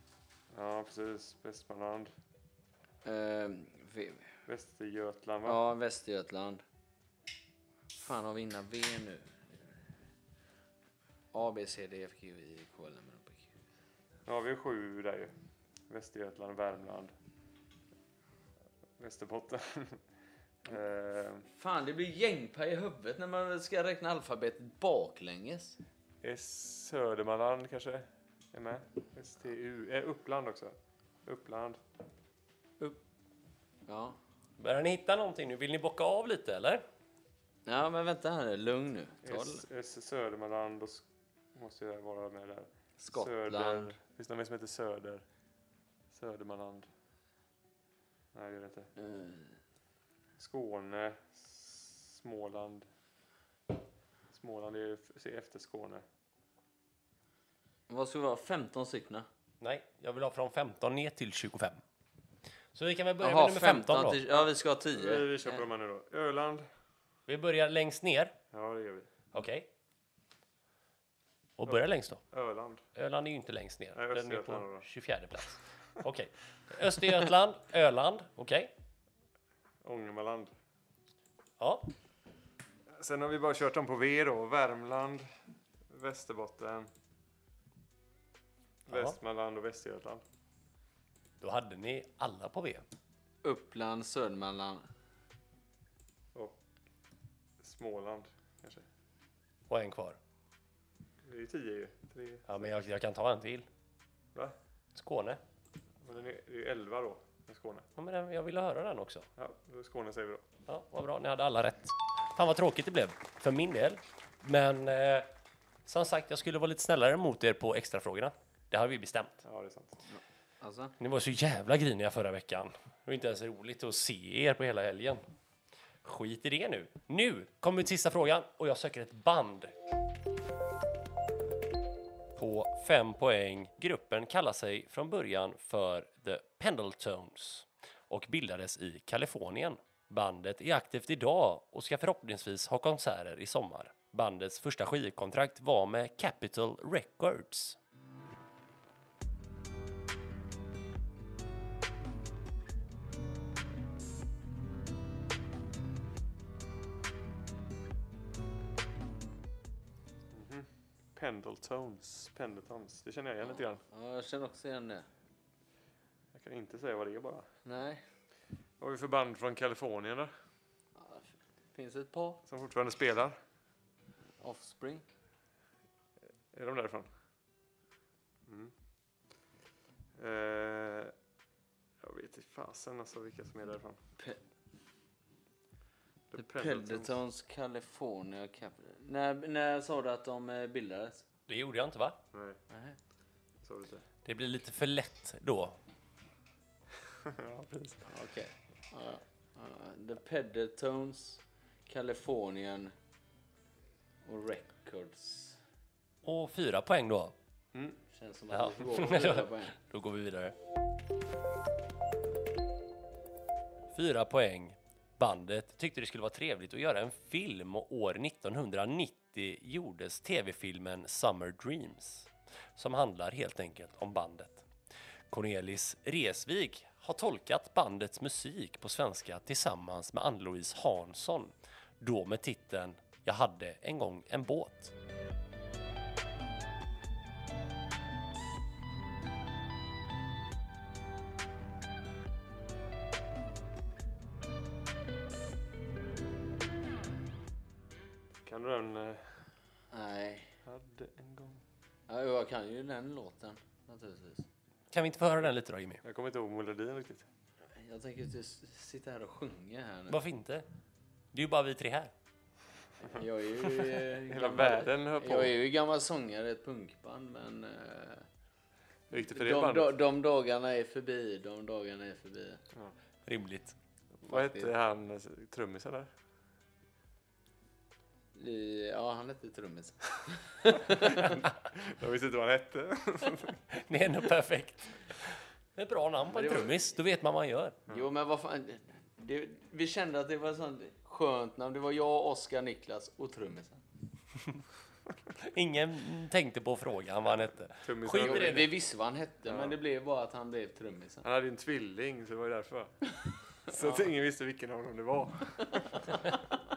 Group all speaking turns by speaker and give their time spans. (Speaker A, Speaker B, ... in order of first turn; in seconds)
Speaker A: 0.5-2.1, 4.5-5.6, 14.3-15.3, 15.9-17.1, 19.0-20.0, 20.6-21.5, 26.2-31.8, 39.2-45.2, 46.1-46.9, 48.3-48.9, 50.4-52.9, 54.3-56.0, 64.3-66.7, 68.5-69.1, 71.7-72.8, 74.0-74.9, 79.8-80.5, 82.9-85.3, 85.9-86.9, 88.9-90.2, 96.3-96.6, 97.6-98.9, 101.2-102.7, 106.0-107.9, 109.4-110.5, 119.4-120.0, 160.3-163.8, 166.3-167.5, 168.8-170.3, 172.5-173.4, 176.5-177.1, 178.5-178.7, 180.2-181.1, 182.0-184.0, 186.3-187.2, 192.3-192.6, 193.6-194.1, 197.1-198.1, 207.7-208.0, 248.5-249.3, 250.7-251.6, 256.0-257.3, 263.6-265.6, 269.1-270.0, 274.2-276.1, 280.9-283.6, 297.8-298.7, 299.5-299.8, 301.2-303.0, 303.6-306.2
Speaker B: 3.0-4.3, 5.5-6.6, 7.9-9.5, 11.3-13.5, 21.5-25.8, 33.9-34.2, 37.7-39.6, 43.0-44.0, 49.0-49.5, 57.9-59.3, 63.2-65.6, 93.4-94.9, 120.1-121.0, 163.8-165.1, 167.7-168.0, 171.0-172.4, 174.4-175.1, 186.4-191.2, 192.7-193.0, 198.1-202.9, 204.2-205.6, 208.1-209.8, 249.9-250.5, 252.1-254.5, 257.8-260.2, 263.0-268.3, 269.2-272.6, 274.3-274.7, 278.3-281.4, 286.3-286.9, 287.9-293.8, 298.2-301.2
Speaker C: 34.6-36.8, 59.6-61.8, 62.7-64.2, 67.3-68.4, 69.3-69.7, 71.6-72.2, 73.0-78.7, 81.6-81.9, 88.9-89.2, 91.4-92.8, 99.7-100.2, 102.5-103.7, 105.0-105.4, 108.0-109.3, 110.7-115.3, 115.9-119.4, 121.0-125.2, 126.0-129.7, 132.4-147.8, 191.5-192.2, 194.2-195.8, 206.2-207.3, 208.5-210.6, 213.9-224.7, 225.3-234.9, 254.9-256.0, 260.1-260.7, 261.3-262.1, 273.3-273.8, 283.7-287.8, 295.4-298.7